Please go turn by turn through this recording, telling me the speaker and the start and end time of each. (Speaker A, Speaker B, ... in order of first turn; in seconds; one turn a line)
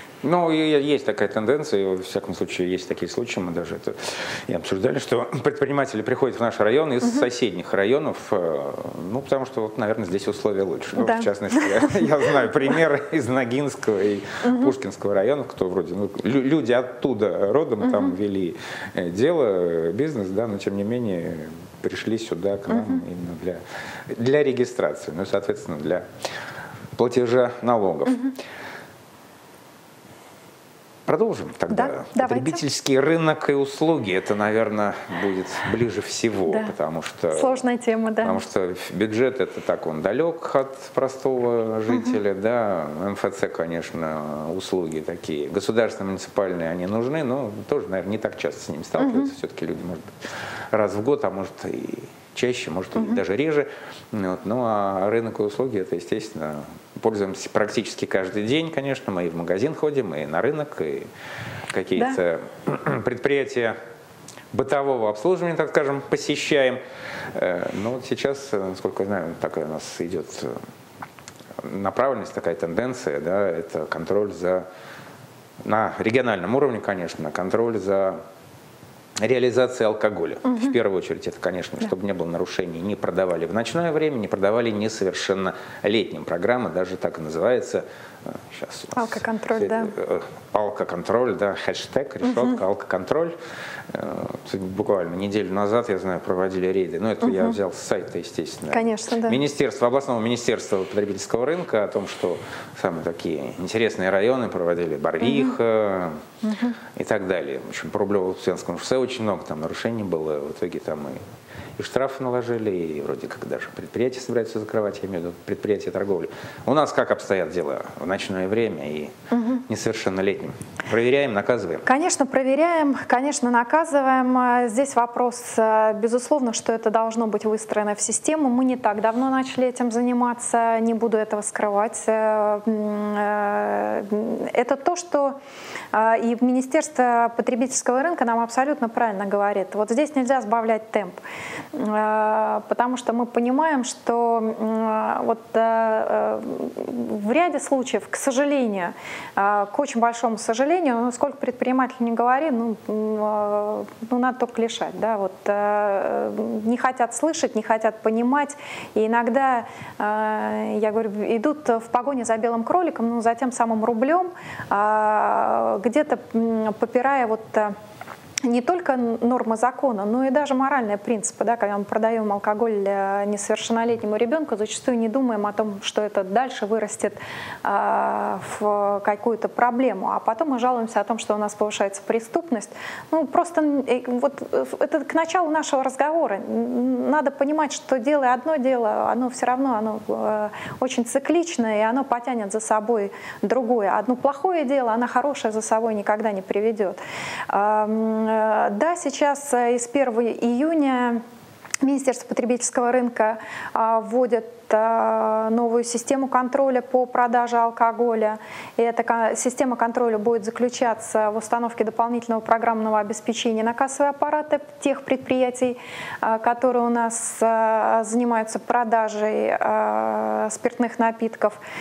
Speaker A: 0.2-26.1
Speaker B: 10.9-12.0
Speaker B: 14.4-14.7
Speaker B: 17.8-18.1
Speaker B: 22.7-23.0
Speaker A: 27.0-28.3
Speaker A: 31.1-37.6
Speaker B: 31.7-32.6
Speaker B: 36.5-36.7
Speaker B: 37.3-38.4
Speaker A: 38.2-50.1
Speaker B: 41.9-42.2
Speaker B: 49.0-49.3
Speaker A: 50.7-61.1
Speaker A: 61.7-63.8
Speaker A: 64.5-66.8
Speaker A: 67.3-70.6
Speaker A: 71.6-74.7
Speaker A: 75.6-78.2
Speaker A: 79.2-93.3
Speaker B: 80.4-80.8
Speaker B: 88.9-89.9
Speaker B: 92.2-92.5
Speaker A: 93.9-106.2
Speaker B: 97.2-97.6
Speaker B: 98.7-99.4
Speaker B: 105.2-105.5
Speaker B: 106.4-106.8
Speaker A: 107.0-111.2
Speaker A: 111.8-119.1
Speaker B: 119.3-119.6
Speaker A: 119.7-121.8
Speaker B: 121.8-135.4
Speaker B: 135.9-141.2
Speaker B: 141.7-167.7
Speaker B: 168.4-201.2
Speaker B: 201.8-221.6